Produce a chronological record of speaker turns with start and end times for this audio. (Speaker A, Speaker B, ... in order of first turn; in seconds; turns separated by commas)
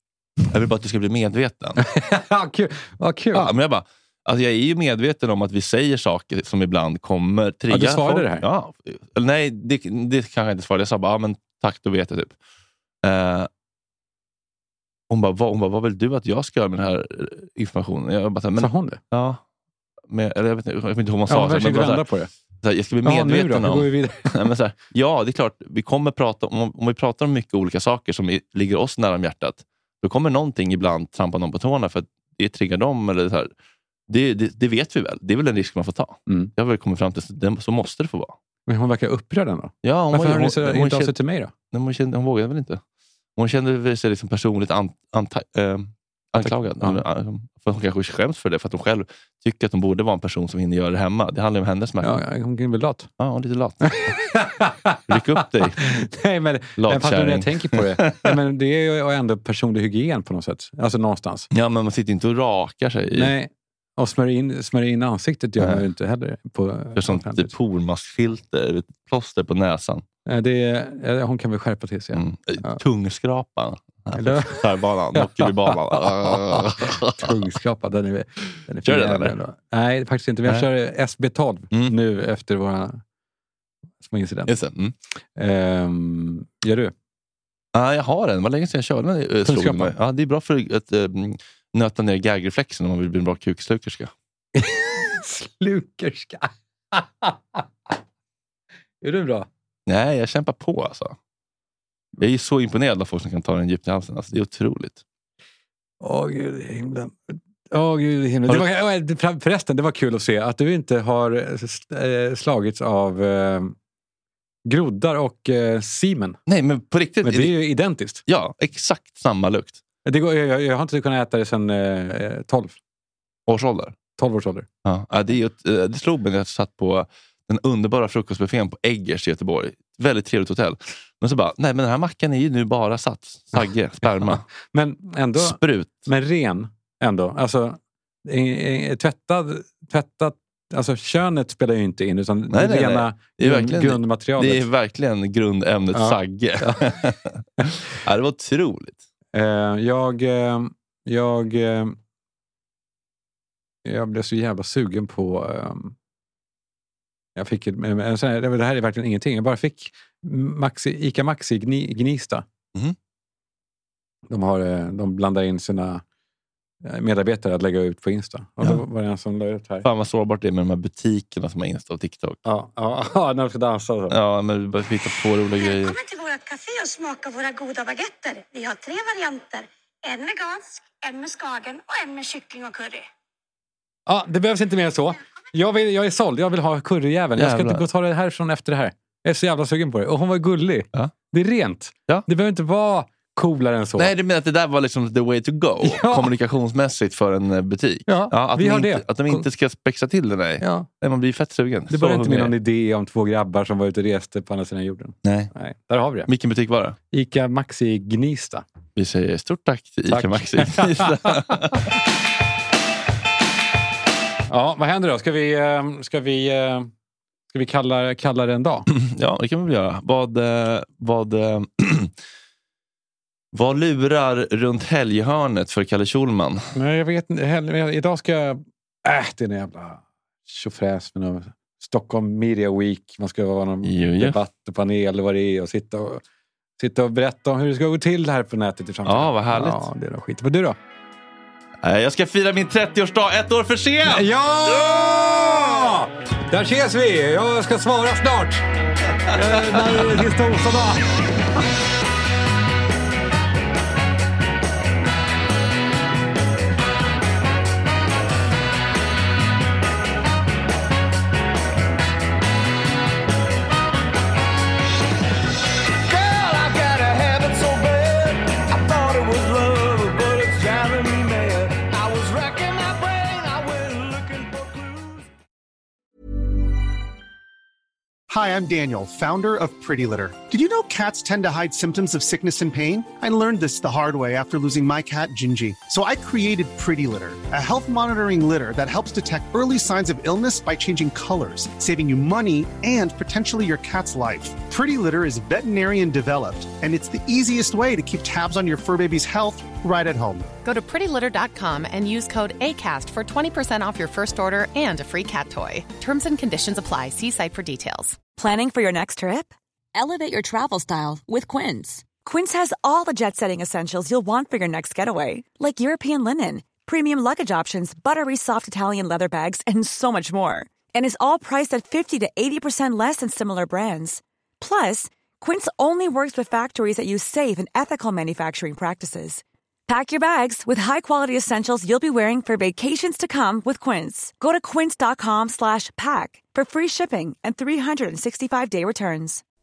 Speaker A: 0.4-1.8, Speaker B: 1.8-3.5, Speaker A: 3.3-12.3, Speaker B: 7.7-8.4, Speaker A: 13.0-13.5, Speaker A: 15.1-19.4, Speaker B: 18.6-19.0, Speaker A: 20.1-22.0, Speaker B: 21.3-22.3, Speaker A: 22.6-33.5, Speaker B: 23.0-24.3, Speaker A: 34.1-38.3, Speaker B: 38.7-41.5, Speaker A: 39.8-41.1, Speaker A: 41.7-42.8, Speaker A: 43.4-52.1, Speaker B: 46.4-47.0, Speaker B: 52.0-53.1, Speaker A: 53.2-54.2, Speaker B: 53.8-61.5, Speaker A: 55.1-55.9, Speaker A: 56.8-58.4, Speaker A: 61.5-63.3, Speaker B: 63.1-67.5, Speaker A: 66.9-70.0, Speaker B: 70.2-72.8, Speaker A: 72.1-77.4, Speaker B: 74.2-83.0, Speaker A: 78.8-79.3, Speaker B: 84.0-84.5, Speaker A: 84.5-84.9, Speaker B: 85.3-86.9, Speaker A: 87.7-94.1, Speaker B: 89.5-89.9, Speaker B: 94.5-97.7, Speaker B: 99.0-99.5, Speaker A: 99.9-101.2, Speaker A: 102.2-105.0, Speaker B: 106.0-113.7, Speaker B: 114.7-116.4, Speaker A: 116.5-117.6, Speaker B: 117.2-118.2, Speaker A: 118.3-119.8, Speaker B: 120.0-122.8, Speaker A: 123.5-123.9, Speaker B: 124.2-124.7, Speaker A: 124.8-134.4, Speaker B: 134.2-144.7, Speaker A: 135.3-136.1, Speaker A: 142.5-149.0, Speaker B: 145.9-146.9, Speaker B: 149.3-152.0, Speaker B: 153.8-155.9, Speaker B: 157.3-162.4, Speaker B: 164.3-166.0, Speaker B: 166.8-169.8, Speaker A: 169.8-172.4, Speaker B: 172.4-174.2, Speaker A: 174.1-176.0, Speaker C: 175.6-183.0, Speaker B: 184.1-194.1, Speaker A: 187.4-187.8, Speaker A: 194.0-202.5, Speaker B: 195.8-196.3, Speaker B: 198.1-199.4, Speaker B: 200.6-200.9, Speaker B: 201.9-206.3, Speaker A: 205.2-205.5, Speaker A: 206.3-206.9, Speaker B: 207.1-208.6, Speaker A: 208.9-211.9, Speaker B: 210.1-211.9, Speaker B: 214.5-216.9, Speaker B: 217.5-218.9, Speaker A: 218.9-222.1, Speaker A: 223.5-226.7, Speaker B: 226.7-236.2, Speaker A: 233.8-234.4, Speaker B: 236.8-240.8, Speaker A: 239.0-239.9, Speaker A: 241.8-244.3, Speaker B: 244.0-248.7, Speaker B: 249.2-251.3, Speaker D: 266.0-275.3, Speaker E: 278.3-300.5, Speaker F: 300.6-308.2, Speaker G: 308.3-339.4